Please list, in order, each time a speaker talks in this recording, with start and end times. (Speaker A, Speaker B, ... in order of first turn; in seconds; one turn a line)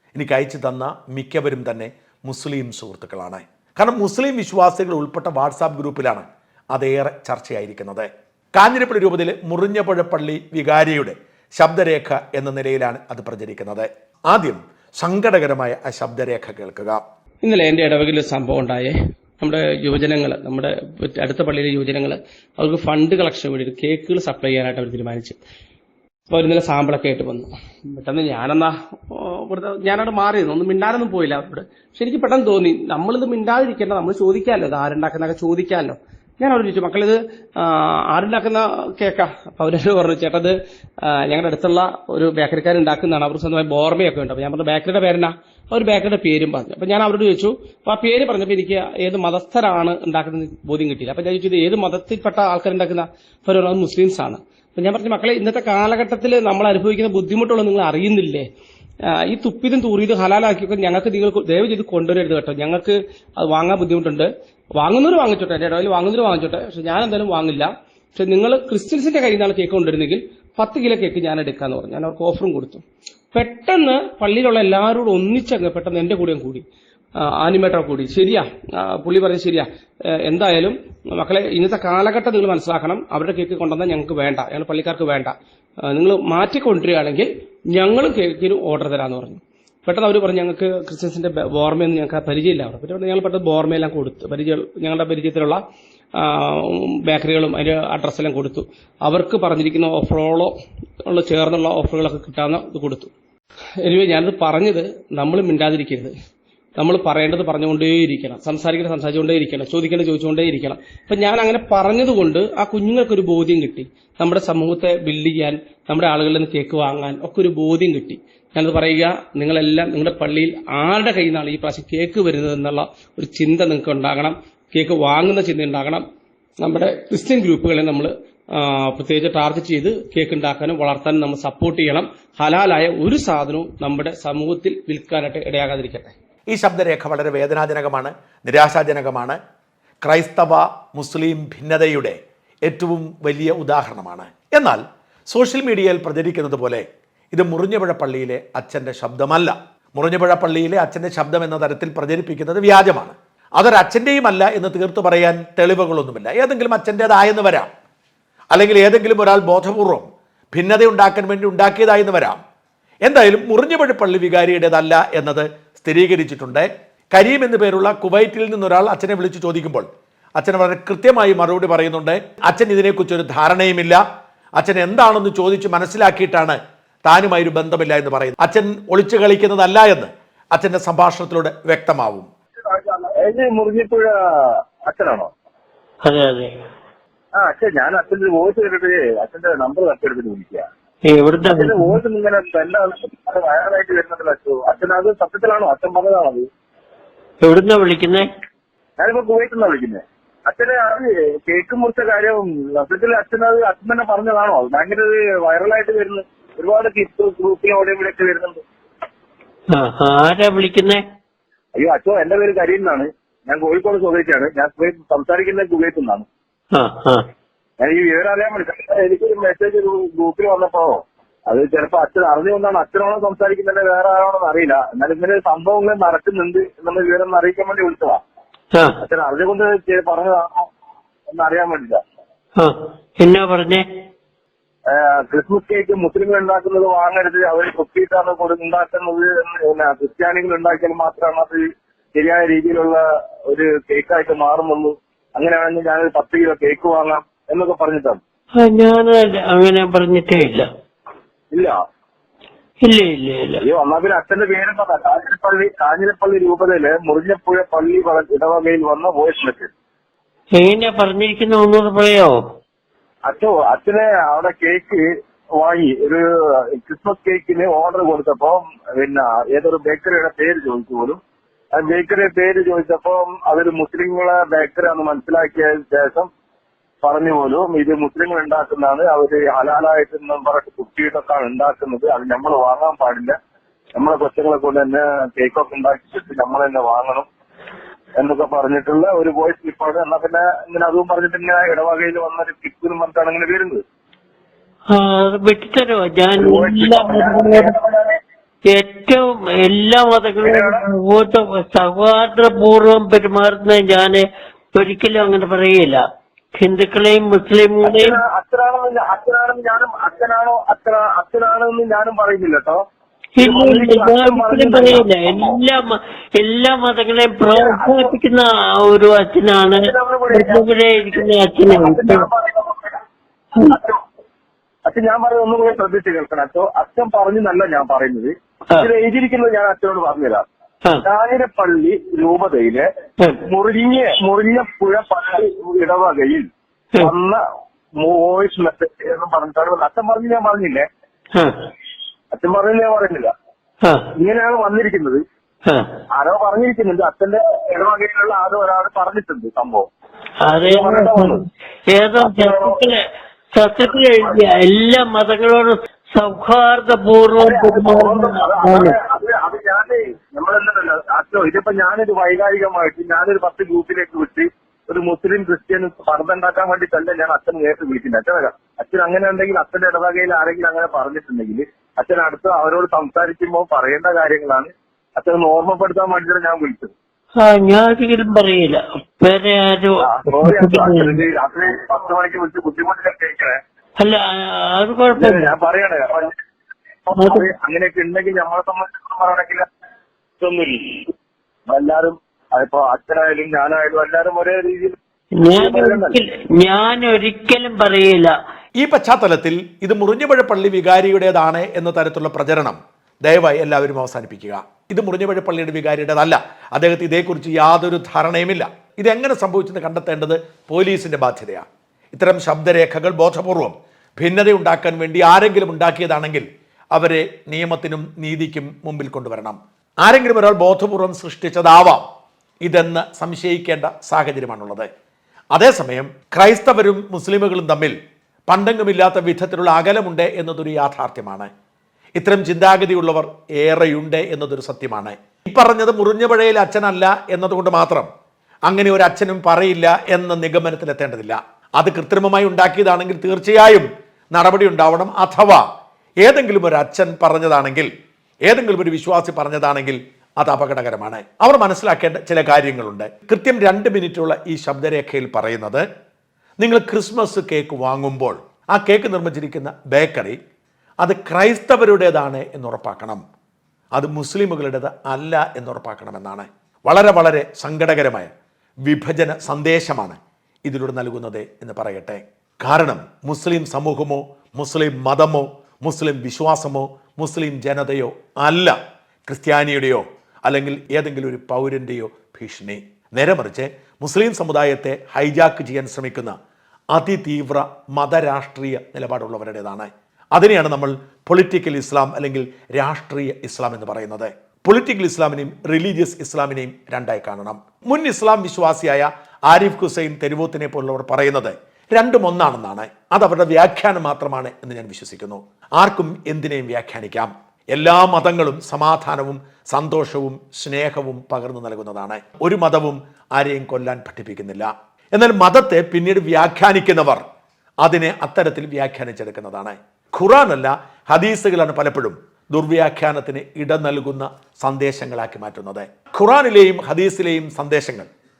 Speaker A: 0.1-17.0
Speaker B: 17.4-25.4
Speaker B: 26.3-40.5
Speaker B: 41.1-58.5
Speaker B: 59.1-72.8
Speaker B: 73.3-76.6
Speaker B: 77.2-79.7
Speaker B: 80.2-85.3
Speaker B: 85.9-95.6
Speaker B: 96.2-100.5
Speaker B: 101.0-103.1
Speaker B: 103.8-106.1
Speaker B: 106.8-126.0
Speaker B: 126.6-136.1
Speaker A: 136.5-139.4
Speaker A: 140.0-157.7
Speaker A: 158.5-162.4
Speaker A: 163.0-169.8
Speaker A: 170.4-174.0
Speaker A: 174.6-182.3
Speaker C: 182.7-185.3
Speaker D: 186.1-186.5
Speaker C: 187.3-190.7
Speaker D: 191.1-191.9
Speaker C: 191.5-196.5
Speaker D: 197.4-198.3
Speaker C: 199.0-208.6
Speaker D: 209.7-211.0
Speaker C: 211.7-216.3
Speaker D: 216.8-217.2
Speaker C: 217.8-228.2
Speaker C: 229.0-230.7
Speaker C: 231.3-232.0
Speaker D: 232.6-233.8
Speaker C: 234.9-241.6
Speaker C: 242.1-248.2
Speaker D: 248.6-250.7
Speaker C: 251.5-251.8
Speaker D: 252.8-253.6
Speaker C: 253.6-259.7
Speaker D: 260.6-262.4
Speaker C: 263.2-271.2
Speaker C: 271.7-276.3
Speaker C: 277.0-283.4
Speaker C: 283.9-287.2
Speaker C: 288.2-293.8
Speaker D: 294.9-297.7
Speaker C: 296.4-298.1
Speaker D: 298.7-306.0
Speaker C: 300.4-300.8
Speaker D: 306.6-308.2
Speaker C: 307.8-312.8
Speaker D: 313.4-322.3
Speaker C: 313.4-315.5
Speaker C: 317.5-318.1
Speaker C: 319.7-322.9
Speaker C: 323.6-324.0
Speaker C: 324.9-330.4
Speaker C: 331.0-332.9
Speaker C: 333.4-336.5
Speaker C: 337.0-337.4
Speaker C: 337.9-340.9
Speaker D: 341.4-341.7
Speaker C: 342.3-343.3
Speaker C: 344.2-345.2
Speaker C: 346.1-349.9
Speaker D: 350.4-353.0
Speaker C: 350.7-351.4
Speaker C: 352.2-352.8
Speaker D: 353.6-358.9
Speaker C: 357.4-376.9
Speaker D: 377.4-381.2
Speaker C: 380.0-383.6
Speaker D: 384.0-385.5
Speaker C: 385.2-386.3
Speaker C: 387.1-389.6
Speaker D: 387.1-387.4
Speaker C: 390.4-391.1
Speaker C: 391.7-394.9
Speaker D: 395.4-398.3
Speaker C: 395.6-396.2
Speaker A: 398.8-422.0
Speaker A: 422.6-424.9
Speaker A: 425.5-427.9
Speaker A: 428.5-431.5
Speaker A: 432.1-438.1
Speaker A: 438.7-445.6
Speaker A: 446.2-447.9
Speaker A: 448.5-455.9
Speaker A: 456.6-460.4
Speaker A: 461.0-463.2
Speaker A: 463.9-468.3
Speaker A: 468.9-478.8
Speaker A: 479.3-486.4
Speaker A: 486.9-517.2
Speaker A: 517.8-528.1